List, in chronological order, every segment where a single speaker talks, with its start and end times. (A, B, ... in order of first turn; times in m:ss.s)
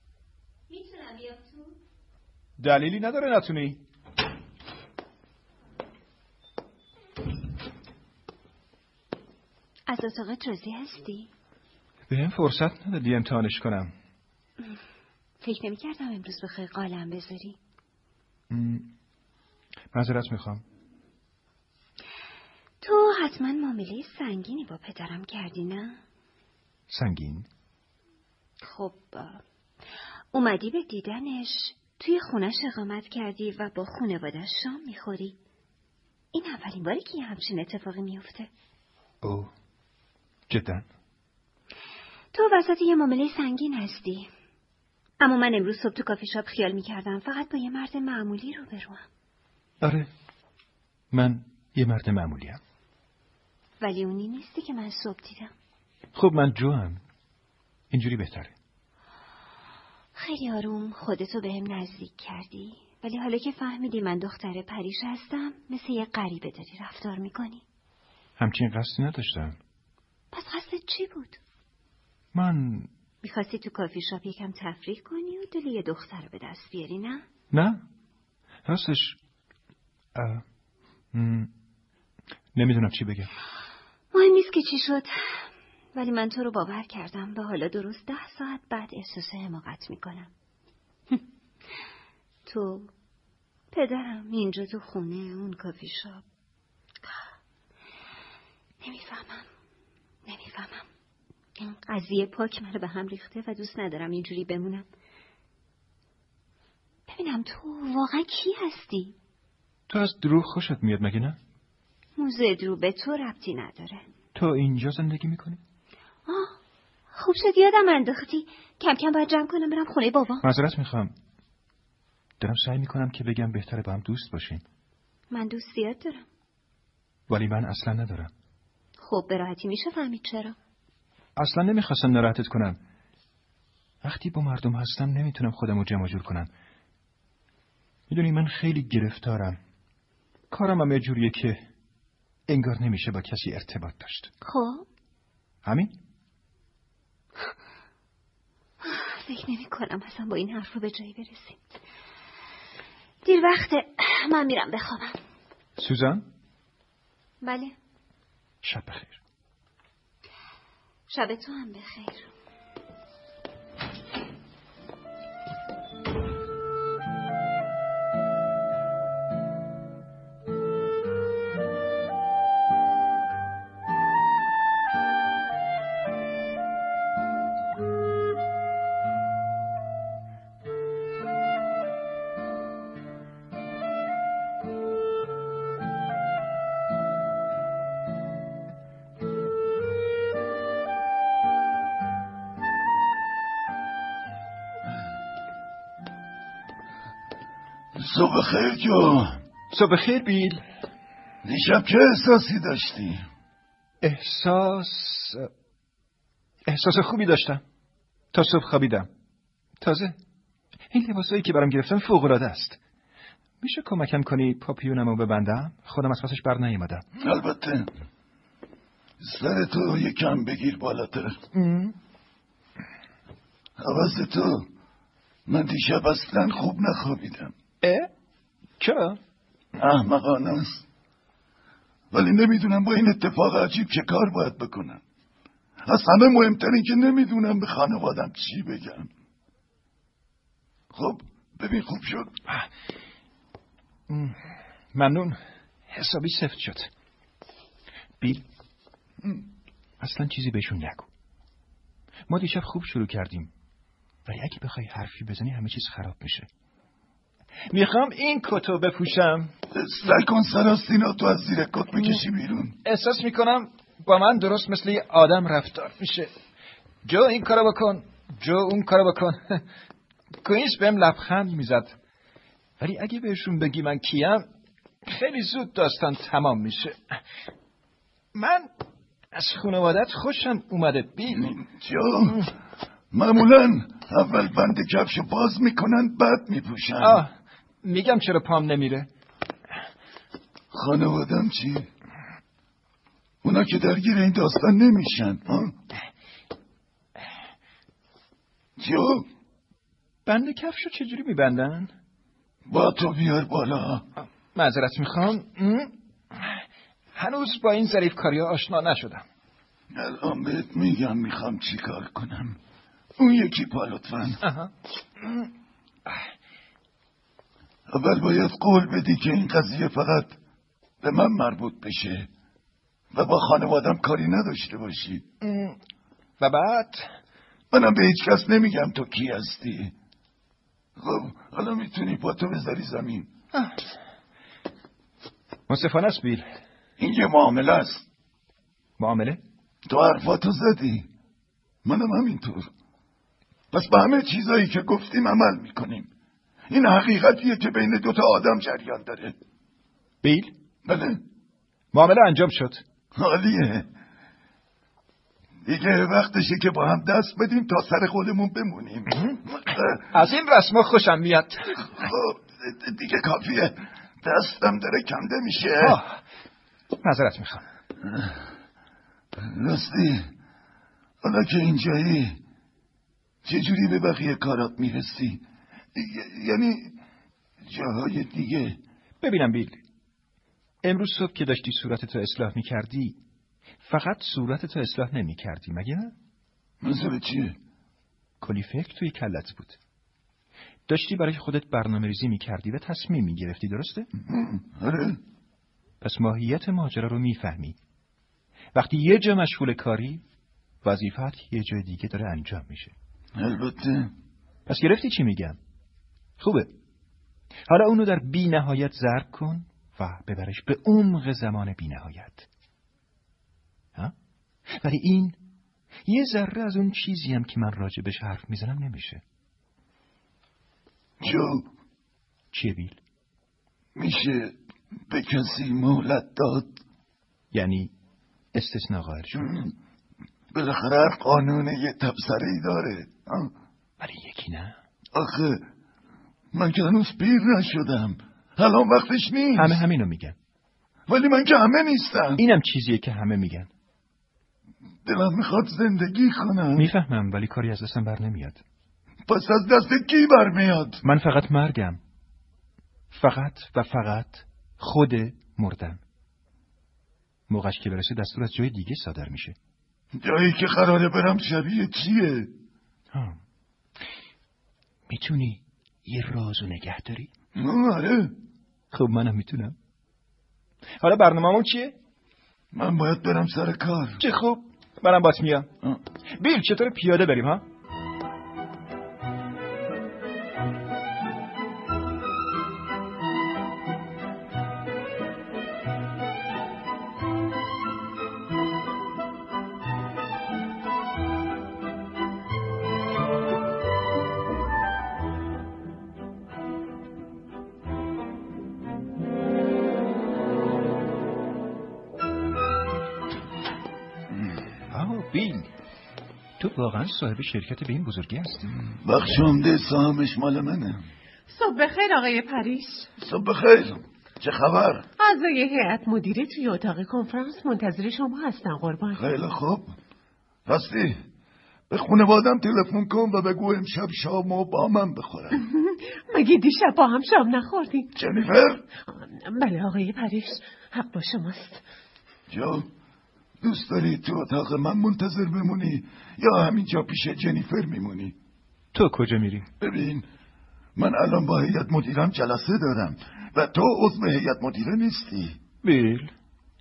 0:00.7-0:01.7 A
0:02.6-0:03.8 B
0:09.9-0:11.3 A
0:12.1-0:13.9 B
0:15.4-0:17.6 A
0:18.5-0:18.9 B
0:19.9-0:20.6 B
0:22.8-0:26.0 A
0:26.9-0:27.5 B
0:28.6-0:29.4 A
0:30.3-0:35.4 A
0:36.3-0:38.5 A
0:39.2-0:39.5 B
0:40.5-0:40.9 B
0:42.3-0:44.3 A
0:45.2-0:49.0 A
0:49.8-0:50.1 B
0:51.1-0:52.6 B
0:53.8-0:55.5 A
0:56.2-0:57.0 B
0:57.9-0:58.5 B
1:00.2-1:07.6 A
1:08.4-1:09.6 B
1:10.3-1:11.4 A
1:12.3-1:12.9 B
1:13.2-1:17.2 A
1:17.5-1:17.8 B
1:18.7-1:19.2 B
1:20.2-1:20.4 B
1:21.1-1:21.5 B
1:22.6-1:23.3 B
1:24.1-1:25.4 A
1:25.9-1:30.3 A
1:32.5-1:32.9 A
1:33.7-1:36.2 A
1:38.8-1:39.5 A
1:40.3-1:40.9 A
1:41.6-1:44.9 A
1:47.1-1:49.2 A
1:49.9-1:51.4 B
1:52.2-1:54.0 A
1:54.4-1:55.6 B
1:56.3-1:56.6 A
1:57.1-2:00.4 A
2:00.4-2:01.1 B
2:02.4-2:04.6 B
2:05.3-2:06.3 A
2:07.3-2:08.3 B
2:09.0-2:10.6 A
2:11.4-2:12.8 B
2:14.0-2:16.5 B
2:18.1-2:19.6 B
2:20.5-2:21.6 B
2:22.5-2:24.3 B
2:24.4-2:24.9 A
2:25.6-2:25.9 B
2:28.8-2:31.6 A
2:33.2-2:35.2 A
2:35.8-2:36.2 B
2:37.4-2:37.8 A
2:38.6-2:39.2 B
2:41.1-2:42.3 A
3:18.0-3:19.4 C
3:19.7-3:20.6 B
3:21.4-3:23.2 C
3:24.0-3:25.5 B
3:26.7-3:27.6 B
3:28.3-3:29.1 B
3:29.8-3:30.2 B
3:30.9-3:32.8 B
3:33.6-3:37.0 B
3:37.2-3:37.9 C
3:39.2-3:41.4 C
3:41.5-3:42.0 B
3:43.8-3:44.7 C
3:45.5-3:47.5 C
3:47.8-3:48.1 B
3:48.8-3:49.2 B
3:49.8-3:50.8 C
3:52.1-3:55.0 C
3:55.9-3:59.1 C
4:00.9-4:02.3 C
4:04.1-4:04.4 B
4:04.9-4:05.4 B
4:05.9-4:06.9 B
4:08.2-4:08.4 B
4:10.0-4:11.1 B
4:12.3-4:13.5 B
4:14.3-4:16.5 B
4:17.7-4:19.5 B
4:19.7-4:22.8 C
4:22.8-4:26.3 B
4:27.0-4:29.6 B
4:30.4-4:32.0 B
4:32.8-4:34.5 B
4:35.1-4:37.0 B
4:38.3-4:38.7 B
4:39.3-4:41.5 B
4:41.3-4:42.4 C
4:43.1-4:47.2 C
4:47.0-4:47.3 B
4:47.8-4:49.1 B
4:50.7-4:51.9 C
4:53.4-4:55.8 C
4:58.8-4:59.3 C
5:00.3-5:01.9 B
5:02.7-5:04.0 C
5:04.2-5:06.6 B
5:07.2-5:09.2 B
5:09.9-5:12.6 C
5:13.2-5:14.4 C
5:14.4-5:14.7 B
5:17.9-5:20.4 C
5:21.0-5:22.3 C
5:23.1-5:25.2 C
5:25.4-5:25.8 B
5:26.4-5:27.1 B
5:27.7-5:29.9 C
5:31.0-5:33.3 C
5:35.7-5:36.5 B
5:37.0-5:38.1 C
5:39.0-5:39.4 B
5:39.9-5:41.1 C
5:41.8-5:42.7 C
5:43.7-5:46.1 C
5:46.7-5:49.4 C
5:50.2-5:50.5 B
5:50.9-5:51.2 C
5:51.9-5:52.8 B
5:53.2-5:53.9 C
5:55.6-6:00.0 C
6:00.1-6:01.9 B
6:02.0-6:06.0 C
6:05.8-6:06.2 B
6:07.0-6:07.6 B
6:09.4-6:10.3 C
6:11.2-6:12.4 C
6:13.4-6:15.4 C
6:16.0-6:17.0 C
6:17.7-6:18.8 C
6:19.2-6:19.8 B
6:20.8-6:23.2 B
6:23.8-6:26.1 B
6:26.8-6:27.6 C
6:28.4-6:29.8 B
6:30.9-6:34.1 B
6:34.3-6:35.2 C
6:36.0-6:37.8 B
6:38.7-6:40.2 B
6:40.8-6:42.9 B
6:43.4-6:44.1 C
6:44.7-6:45.6 B
6:46.4-6:46.7 B
6:47.7-6:52.5 B
6:54.7-6:55.4 B
6:56.1-6:59.2 B
7:01.2-7:01.7 C
7:02.5-7:03.0 B
7:04.0-7:04.5 C
7:05.1-7:06.7 C
7:07.5-7:07.9 B
7:08.5-7:09.5 B
7:09.4-7:09.7 C
7:10.5-7:13.5 C
7:14.0-7:14.8 B
7:15.1-7:15.6 C
7:16.5-7:19.8 C
7:19.6-7:20.4 B
7:21.1-7:22.4 C
7:22.4-7:23.7 B
7:25.1-7:26.9 C
7:26.8-7:28.6 B
7:29.3-7:31.0 C
7:31.0-7:32.0 B
7:33.1-7:36.0 B
7:37.5-7:39.6 B
7:40.2-7:42.5 C
7:43.1-7:43.4 B
7:45.1-7:47.3 B
7:47.6-7:48.3 C
7:48.9-7:49.8 B
7:51.0-7:52.0 B
7:52.7-7:54.2 C
7:54.2-7:55.7 B
7:56.3-7:57.6 B
8:24.9-8:25.7 B
8:26.6-8:28.8 B
8:29.0-8:31.0 C
8:31.5-8:33.1 D
8:33.2-8:35.1 C
8:35.2-8:39.2 D
8:39.1-8:39.9 C
8:40.7-8:41.2 C
8:41.9-8:45.6 C
8:45.5-8:48.1 D
8:48.2-8:48.8 C
8:49.1-8:51.8 D
8:52.5-8:52.9 C
8:53.6-8:58.4 C
8:58.9-8:59.7 B
8:59.8-9:00.2 C
9:01.0-9:05.6 C
9:05.8-9:06.3 B